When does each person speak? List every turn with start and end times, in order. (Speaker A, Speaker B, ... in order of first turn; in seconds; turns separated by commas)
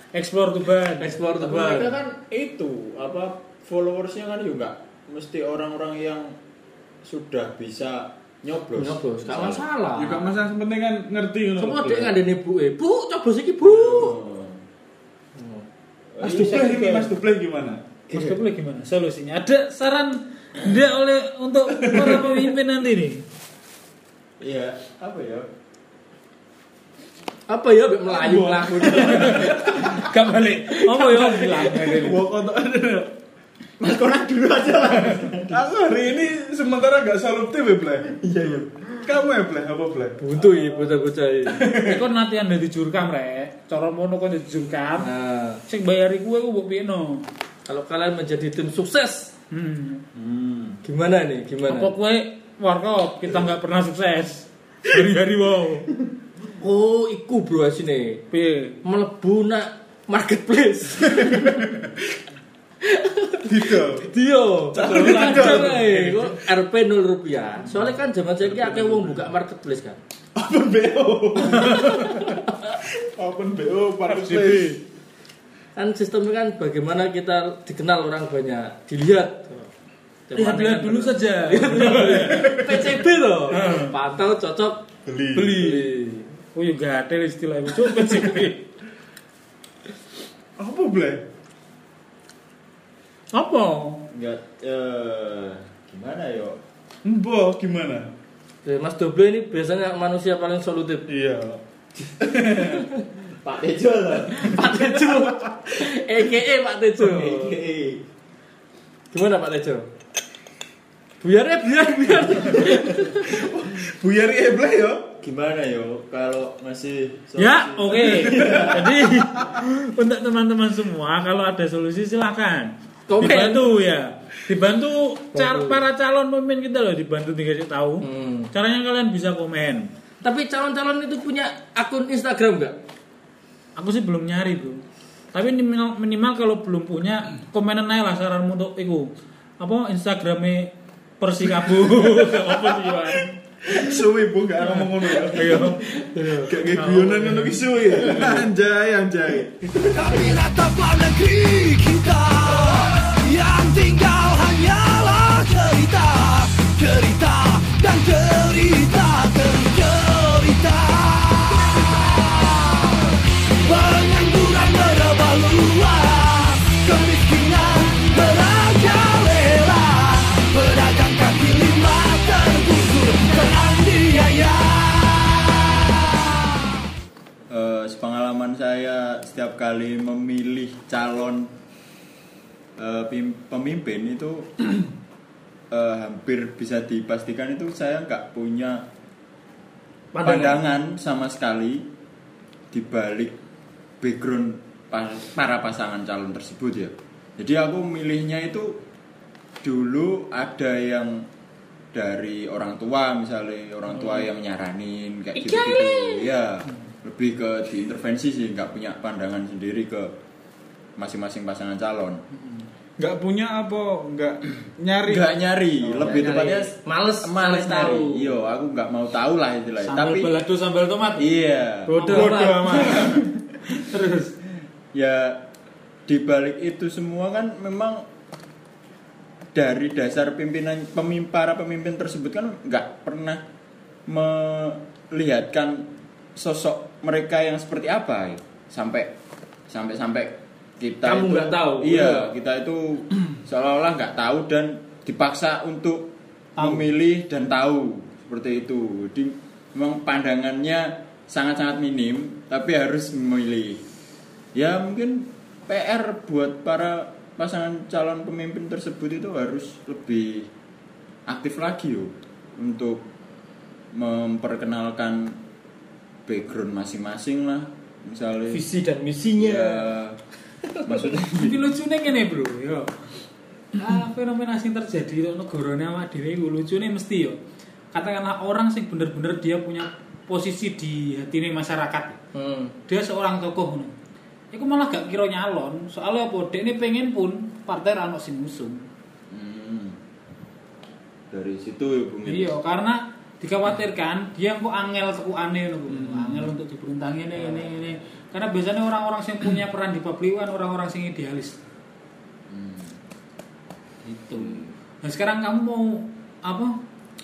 Speaker A: 0.1-1.2, Speaker B: 1.0-1.9, Speaker C: 1.4-6.4, Speaker C: 7.0-9.7, Speaker B: 8.8-10.3, Speaker D: 10.0-12.2, Speaker B: 11.6-14.2, Speaker C: 13.7-14.6, Speaker B: 15.3-15.7, Speaker C: 16.1-16.9, Speaker D: 16.2-17.8, Speaker A: 16.2-17.1, Speaker A: 18.1-23.2, Speaker C: 24.4-25.5, Speaker B: 27.5-29.9, Speaker D: 28.1-30.0, Speaker A: 29.0-32.2, Speaker B: 30.9-31.8, Speaker D: 31.5-33.1, Speaker C: 33.8-35.7, Speaker D: 35.5-38.2, Speaker C: 38.2-39.0, Speaker D: 39.0-40.8, Speaker B: 40.2-41.7, Speaker D: 41.5-42.0, Speaker A: 41.8-45.1, Speaker B: 45.0-45.6, Speaker A: 45.7-47.2, Speaker B: 47.7-49.3, Speaker A: 49.5-50.0, Speaker C: 50.1-50.8, Speaker B: 50.8-51.9, Speaker A: 51.7-55.9, Speaker B: 56.6-58.2, Speaker A: 58.3-58.8, Speaker B: 58.8-61.6, Speaker D: 61.0-61.9, Speaker B: 62.8-70.0, Speaker D: 63.5-64.1, Speaker D: 64.7-66.4, Speaker A: 64.8-65.8, Speaker D: 68.4-69.2, Speaker D: 70.3-74.8, Speaker B: 71.6-72.4, Speaker A: 74.1-74.8, Speaker B: 75.8-79.7, Speaker B: 80.3-86.3, Speaker A: 80.3-82.6, Speaker D: 81.9-82.9, Speaker A: 83.5-84.0, Speaker D: 85.1-85.8, Speaker A: 86.5-88.7, Speaker D: 90.6-91.2, Speaker A: 93.3-94.1, Speaker C: 94.1-96.6, Speaker D: 97.0-98.1, Speaker B: 98.7-101.1, Speaker D: 101.1-101.6, Speaker D: 102.2-102.8, Speaker C: 103.4-104.7, Speaker B: 104.4-107.6, Speaker D: 104.8-105.4, Speaker C: 107.0-108.0, Speaker B: 109.1-109.9, Speaker B: 111.2-113.4, Speaker C: 112.7-113.9, Speaker D: 113.3-115.1, Speaker C: 115.1-119.0, Speaker A: 117.4-129.9, Speaker D: 118.2-118.8, Speaker B: 123.1-123.7, Speaker B: 125.3-125.8, Speaker B: 128.0-128.5, Speaker B: 130.2-132.8, Speaker A: 133.8-134.8, Speaker A: 135.3-143.4, Speaker D: 141.8-143.0, Speaker D: 143.6-149.7, Speaker A: 144.6-145.8, Speaker B: 146.0-146.5, Speaker A: 146.7-147.7, Speaker E: 149.8-176.3, Speaker C: 177.5-181.5, Speaker C: 182.8-184.9, Speaker C: 185.7-188.9, Speaker B: 190.1-190.6, Speaker C: 190.2-191.9, Speaker C: 192.7-193.4, Speaker C: 194.0-198.8, Speaker C: 199.6-201.3, Speaker C: 201.9-210.2, Speaker C: 211.0-212.2, Speaker A: 212.3-212.7, Speaker D: 213.0-216.2, Speaker C: 215.1-220.3, Speaker B: 216.0-218.3, Speaker A: 219.8-221.3, Speaker C: 221.2-222.2, Speaker B: 221.9-223.1, Speaker A: 222.0-224.3, Speaker D: 222.0-223.2, Speaker C: 224.9-225.5, Speaker C: 226.1-228.1, Speaker C: 229.5-233.4, Speaker C: 234.1-239.1, Speaker C: 239.7-253.8, Speaker B: 241.1-242.3, Speaker A: 246.6-246.9, Speaker C: 254.5-260.5, Speaker C: 261.3-263.1, Speaker C: 263.9-265.4, Speaker C: 266.3-268.7, Speaker B: 268.5-269.9, Speaker C: 269.4-270.2, Speaker B: 270.7-271.2, Speaker C: 270.9-271.7, Speaker A: 271.3-272.9, Speaker A: 273.8-277.4, Speaker A: 277.9-282.2, Speaker B: 282.3-282.8, Speaker A: 282.9-283.9, Speaker A: 284.5-288.8, Speaker C: 289.3-290.0, Speaker C: 291.3-292.6, Speaker A: 292.3-301.6, Speaker D: 295.9-296.5, Speaker C: 302.5-303.0, Speaker A: 304.0-306.8, Speaker C: 304.4-304.7